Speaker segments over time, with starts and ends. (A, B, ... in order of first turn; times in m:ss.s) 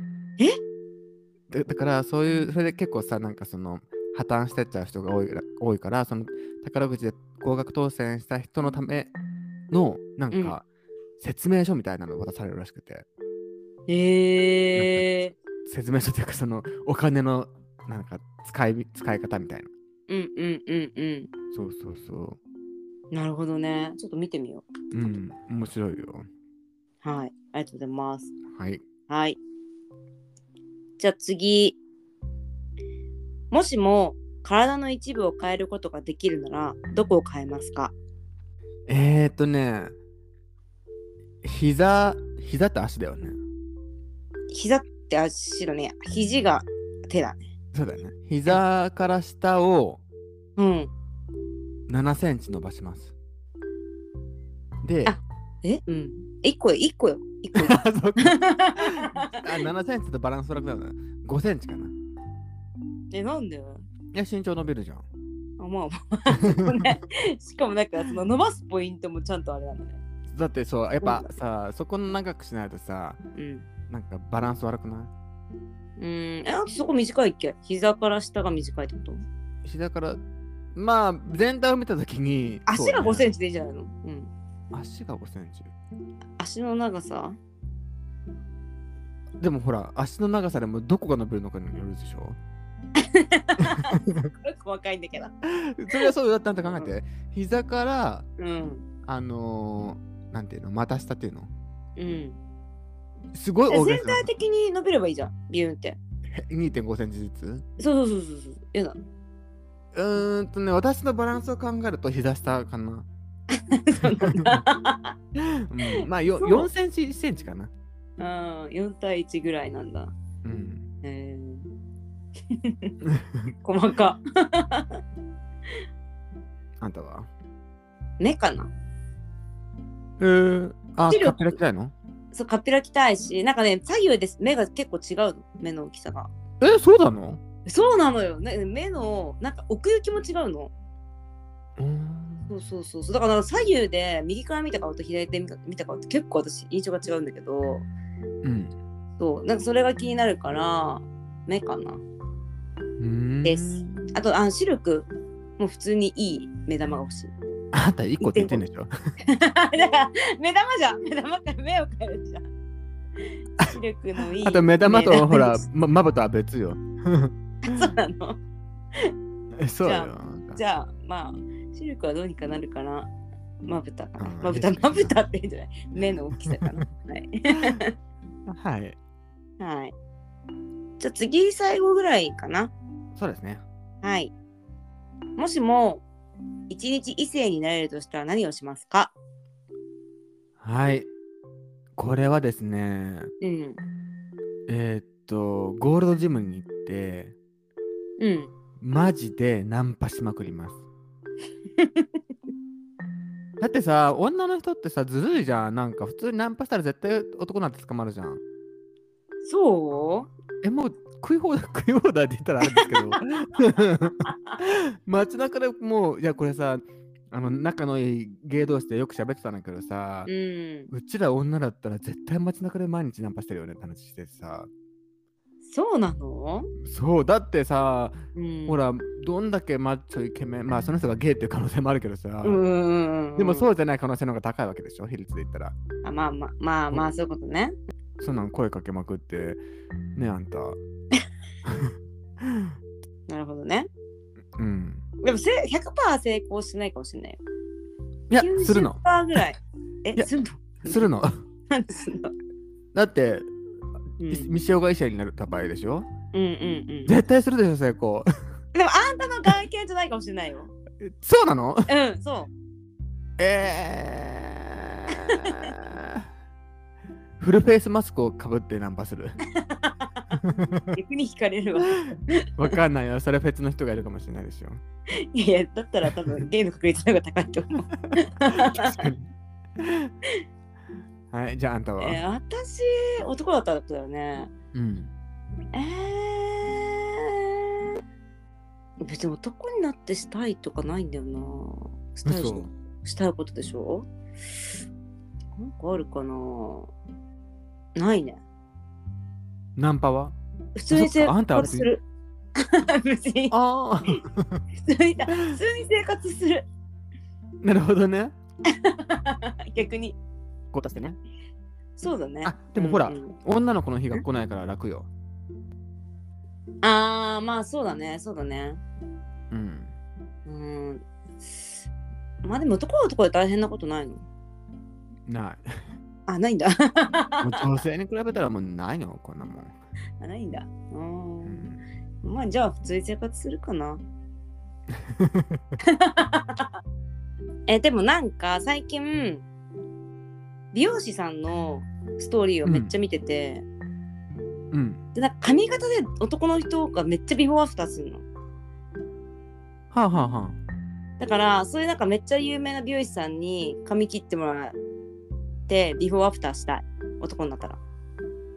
0:01.5-0:09.1 A
0:09.7-0:10.6 A
0:11.2-0:13.0 A
0:13.9-0:15.3 B
0:14.7-0:15.1 A
0:15.6-0:19.7 A
0:20.1-0:21.3 B
0:21.5-0:22.4 A
0:23.1-0:24.6 B
0:24.9-0:26.3 A
0:27.0-0:28.3 B
0:28.5-0:28.8 A
0:29.1-0:29.4 B
0:31.0-0:31.8 B
0:33.5-0:37.9 B
0:38.9-0:39.9 A
0:41.4-0:43.4 A
0:44.5-0:47.4 B
0:47.7-0:50.0 A
0:50.6-0:50.9 B
0:51.9-0:53.1 A
0:54.8-0:55.2 A
0:55.0-0:59.4 B
0:57.5-1:01.9 A
1:03.1-1:03.8 B
1:04.1-1:05.1 A
1:05.6-1:10.0 B
1:06.3-1:06.8 A
1:10.3-1:13.2 A
1:11.0-1:11.3 B
1:13.3-1:13.7 B
1:13.9-1:15.1 A
1:16.0-1:19.2 B
1:19.6-1:20.2 A
1:20.7-1:23.2 A
1:22.7-1:24.3 B
1:24.7-1:25.7 A
1:26.4-1:27.4 B
1:29.4-1:32.4 A
1:33.0-1:35.3 B
1:33.6-1:34.3 A
1:35.5-1:38.3 A
1:38.4-1:38.8 B
1:39.0-1:41.5 A
1:42.0-1:42.4 B
1:43.3-1:44.3 A
1:43.7-1:46.0 B
1:46.3-1:47.6 A
1:47.8-1:49.0 B
1:49.9-1:53.1 A
1:53.5-1:55.1 B
1:54.1-1:54.6 A
1:55.4-1:57.7 A
1:55.9-1:56.7 B
1:58.2-2:00.1 B
2:00.4-2:00.9 A
2:01.0-2:01.7 B
2:02.5-2:02.9 B
2:03.0-2:03.5 A
2:03.6-2:05.0 B
2:06.8-2:07.3 A
2:08.2-2:08.7 B
2:10.2-2:11.9 A
2:11.1-2:11.6 B
2:12.3-2:16.3 B
2:16.6-2:17.4 A
2:17.6-2:20.7 B
2:21.8-2:22.5 A
2:22.5-2:27.8 B
2:28.4-2:28.7 A
2:29.2-2:32.0 B
2:33.0-2:34.1 A
2:33.4-2:37.3 B
2:37.7-2:38.9 A
2:38.2-2:38.6 B
2:39.2-2:42.4 B
2:43.2-2:45.6 B
2:44.4-2:47.9 A
2:47.6-2:48.4 B
2:49.6-2:50.6 A
2:49.8-2:53.1 B
2:53.6-2:57.9 B
2:54.2-2:55.1 A
2:56.4-2:56.8 A
2:57.5-2:57.8 A
2:58.5-2:59.0 A
2:59.6-2:59.9 B
3:01.0-3:02.7 B
3:03.2-3:03.6 A
3:04.0-3:04.3 B
3:05.4-3:06.0 B
3:06.7-3:09.1 B
3:10.6-3:11.1 A
3:12.0-3:13.3 A
3:13.4-3:13.8 B
3:14.7-3:17.3 A
3:18.2-3:18.5 B
3:18.8-3:20.8 A
3:21.8-3:22.2 B
3:23.6-3:28.4 A
3:29.4-3:30.3 B
3:30.6-3:40.3 A
3:32.8-3:33.1 B
3:34.3-3:34.6 B
3:40.3-3:40.9 B
3:40.9-3:44.7 A
3:45.6-3:46.7 B
3:46.8-3:52.6 A
3:48.3-3:48.8 B
3:52.4-3:53.7 B
3:53.4-3:55.7 A
3:56.0-3:57.7 B
3:58.2-3:59.6 A
4:00.2-4:00.8 A
4:01.6-4:02.7 A
4:03.3-4:03.9 B
4:04.6-4:05.0 A
4:05.2-4:07.4 B
4:08.3-4:09.4 A
4:08.4-4:11.1 B
4:10.8-4:11.4 A
4:11.7-4:12.3 B
4:12.9-4:13.5 A
4:14.2-4:14.5 B
4:14.2-4:16.1 A
4:16.3-4:17.1 B
4:17.1-4:18.3 A
4:18.7-4:20.7 B
4:21.0-4:21.9 A
4:21.9-4:22.5 B
4:23.4-4:26.3 A
4:25.1-4:25.7 B
4:27.4-4:29.4 A
4:29.6-4:30.3 B
4:30.3-4:31.0 A
4:30.9-4:32.7 B
4:31.9-4:34.8 A
4:35.2-4:39.1 B
4:38.1-4:39.3 A
4:39.8-4:40.1 A
4:41.3-4:42.2 A
4:42.0-4:44.5 B
4:44.7-4:45.1 A
4:45.7-4:48.0 B
4:49.0-4:54.1 B
4:52.2-4:52.7 A
4:55.6-4:56.9 B
4:57.9-4:58.4 B
4:59.8-5:00.4 A
5:00.8-5:02.0 B
5:00.9-5:01.9 A
5:02.6-5:03.5 B
5:03.5-5:04.6 A
5:04.8-5:06.6 B
5:05.3-5:05.6 A
5:07.6-5:08.3 A
5:08.6-5:10.2 B
5:10.7-5:11.2 A
5:12.0-5:13.3 B
5:12.4-5:15.1 A
5:16.8-5:18.8 B
5:19.5-5:19.9 A
5:20.4-5:21.0 B
5:22.4-5:24.2 B
5:25.3-5:25.6 A
5:26.3-5:27.6 B
5:27.4-5:29.7 A
5:30.2-5:31.6 B
5:31.4-5:31.8 A
5:32.2-5:34.0 B
5:35.0-5:35.6 A
5:35.8-5:36.8 B
5:37.7-5:39.4 B
5:40.7-5:43.6 B
5:42.6-5:42.9 A
5:44.7-5:45.0 A
5:45.1-5:48.2 B
5:49.9-5:50.6 A
5:51.2-5:54.8 B
5:55.7-5:57.8 B